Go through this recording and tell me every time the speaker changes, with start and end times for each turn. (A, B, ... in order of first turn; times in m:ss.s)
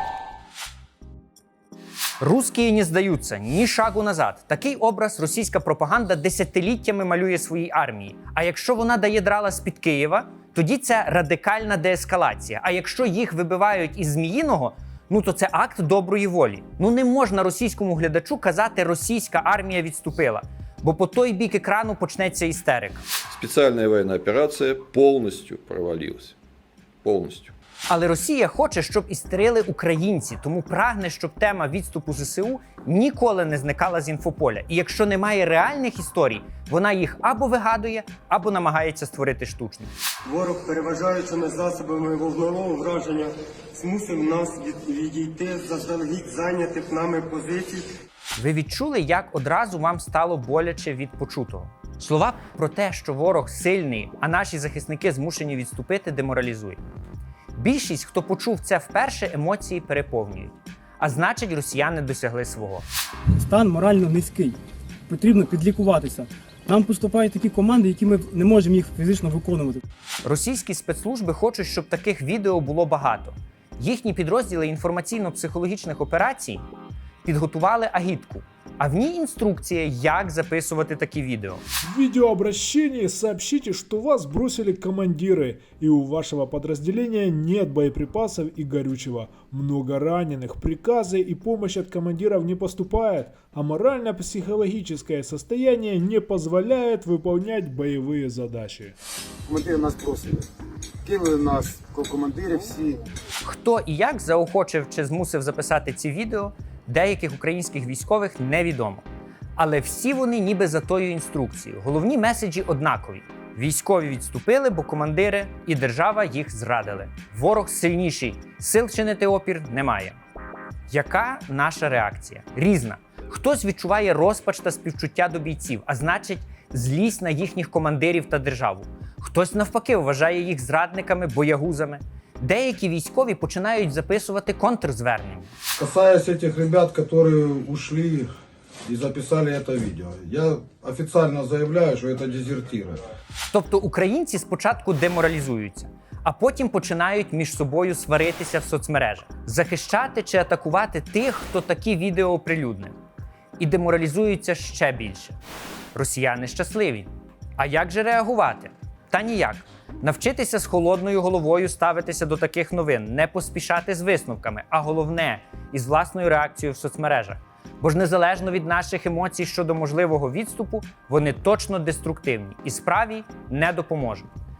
0:02.2-0:23.0 A
0:23.3-0:26.4 B
0:27.0-0:27.5 B
0:27.9-0:39.9 A
0:40.3-0:47.9 C
0:44.1-0:44.9 D
0:48.4-0:56.8 A
0:57.6-1:02.9 A
1:03.4-1:09.8 E
1:10.2-1:16.6 A
1:17.2-1:21.6 A
1:21.9-1:39.0 F
1:39.5-1:40.5 D
1:41.0-1:43.0 D
1:43.4-1:49.1 A
1:49.6-2:00.2 A
2:00.9-2:15.5 A
2:15.8-2:18.3 G
2:18.8-2:23.0 G
2:23.5-2:33.0 A
2:33.6-2:35.4 A
2:35.9-2:54.3 A